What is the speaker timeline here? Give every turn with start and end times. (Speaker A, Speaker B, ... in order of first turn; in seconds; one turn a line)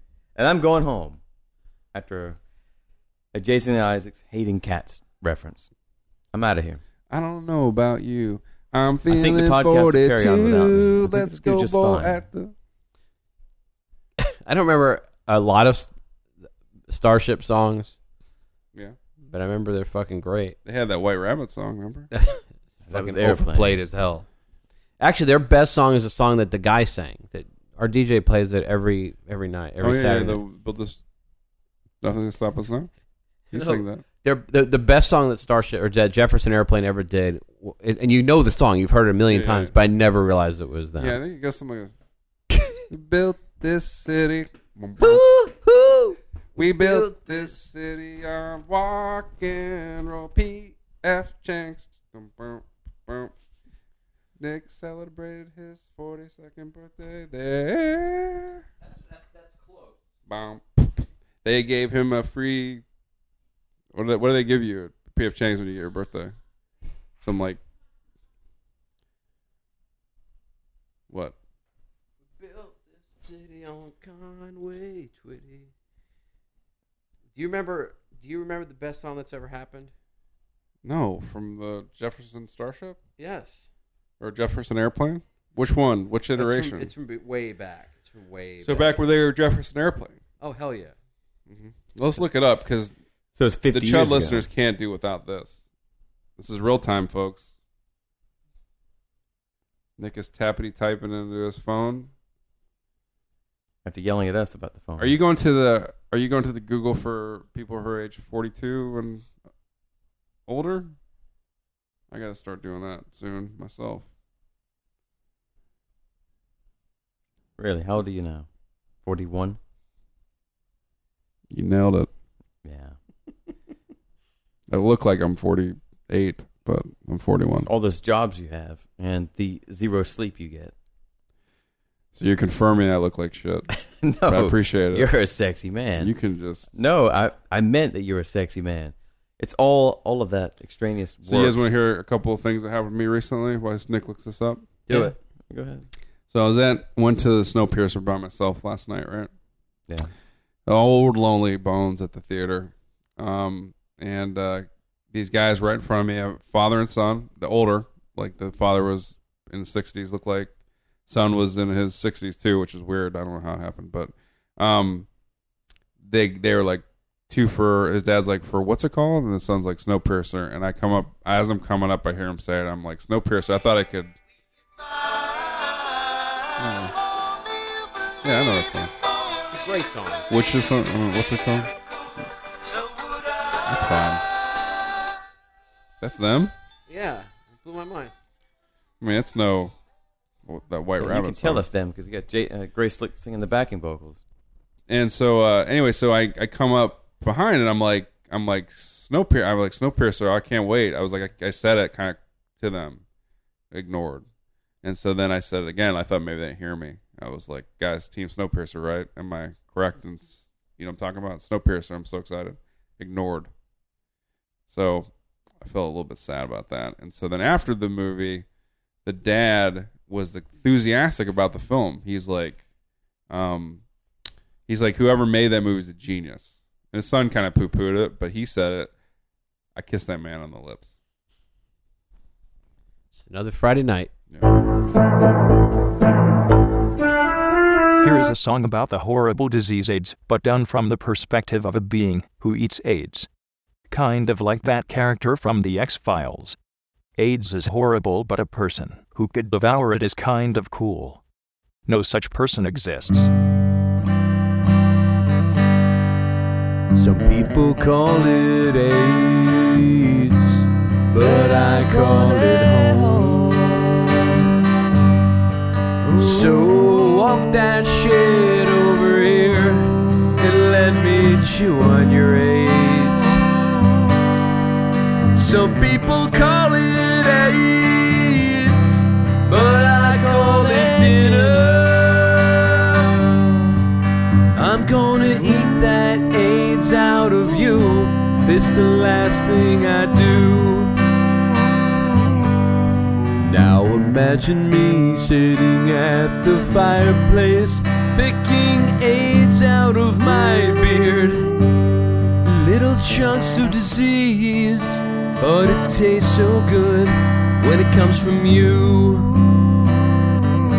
Speaker A: 0.3-1.2
Speaker A: 1.9-2.4
Speaker A: 3.3-5.7
Speaker A: 6.3-6.8
Speaker B: 7.1-12.5
Speaker A: 9.1-12.2
Speaker C: 14.2-15.9
Speaker C: 16.9-17.9
Speaker C: 19.3-20.6
Speaker B: 20.6-22.1
Speaker C: 22.1-24.2
Speaker A: 22.8-23.8
Speaker C: 25.0-30.4
Speaker B: 29.8-31.0
Speaker B: 32.0-32.9
Speaker B: 33.5-34.0
Speaker C: 33.5-41.2
Speaker B: 39.3-39.7
Speaker B: 41.0-41.9
Speaker B: 42.9-45.2
Speaker C: 45.0-47.5
Speaker B: 46.5-53.3
Speaker B: 54.4-58.6
Speaker C: 59.0-59.9
Speaker B: 60.3-62.8
Speaker B: 63.9-66.3
Speaker B: 67.2-67.6
Speaker C: 72.4-75.7
Speaker C: 77.3-79.9
Speaker B: 80.8-83.0
Speaker C: 83.2-83.7
Speaker B: 84.2-86.9
Speaker C: 86.3-88.9
Speaker B: 88.6-90.2
Speaker C: 90.4-90.9
Speaker B: 91.5-93.0
Speaker A: 93.3-94.5
Speaker B: 93.7-95.6
Speaker B: 96.4-97.5
Speaker B: 100.0-102.1
Speaker A: 103.8-105.2
Speaker B: 105.0-109.3
Speaker B: 110.5-110.9
Speaker B: 112.1-114.0
Speaker A: 117.6-118.5
Speaker A: 119.0-119.6
Speaker B: 121.5-122.1
Speaker A: 122.6-123.0
Speaker B: 124.7-127.7
Speaker A: 127.5-130.7
Speaker B: 132.1-133.7
Speaker A: 133.7-136.1
Speaker B: 134.3-135.1
Speaker B: 136.0-136.7
Speaker A: 136.7-141.6
Speaker B: 141.2-144.7
Speaker C: 144.9-145.2
Speaker A: 144.9-145.9
Speaker B: 146.3-149.3
Speaker B: 150.7-160.5
Speaker B: 161.1-165.1
Speaker B: 166.0-174.1
Speaker B: 176.6-176.9
Speaker B: 178.2-178.9
Speaker C: 179.5-180.3
Speaker B: 180.3-181.7
Speaker B: 183.6-184.2
Speaker B: 186.0-186.5
Speaker C: 186.9-188.1
Speaker B: 189.0-189.7
Speaker B: 190.4-191.6
Speaker A: 191.0-194.2
Speaker B: 194.9-203.0
Speaker B: 203.7-204.2
Speaker B: 204.8-213.5
Speaker B: 214.7-215.1
Speaker B: 215.6-218.4
Speaker B: 219.0-222.6
Speaker B: 223.3-223.8
Speaker B: 224.7-228.9
Speaker B: 229.8-230.9
Speaker C: 233.1-234.1
Speaker D: 238.0-243.3
Speaker D: 243.9-246.6
Speaker D: 247.2-251.2
Speaker D: 251.8-253.3
Speaker E: 256.9-264.4
Speaker E: 266.1-273.5
Speaker E: 275.3-283.7
Speaker E: 284.5-290.9
Speaker E: 293.4-301.6
Speaker E: 302.4-309.9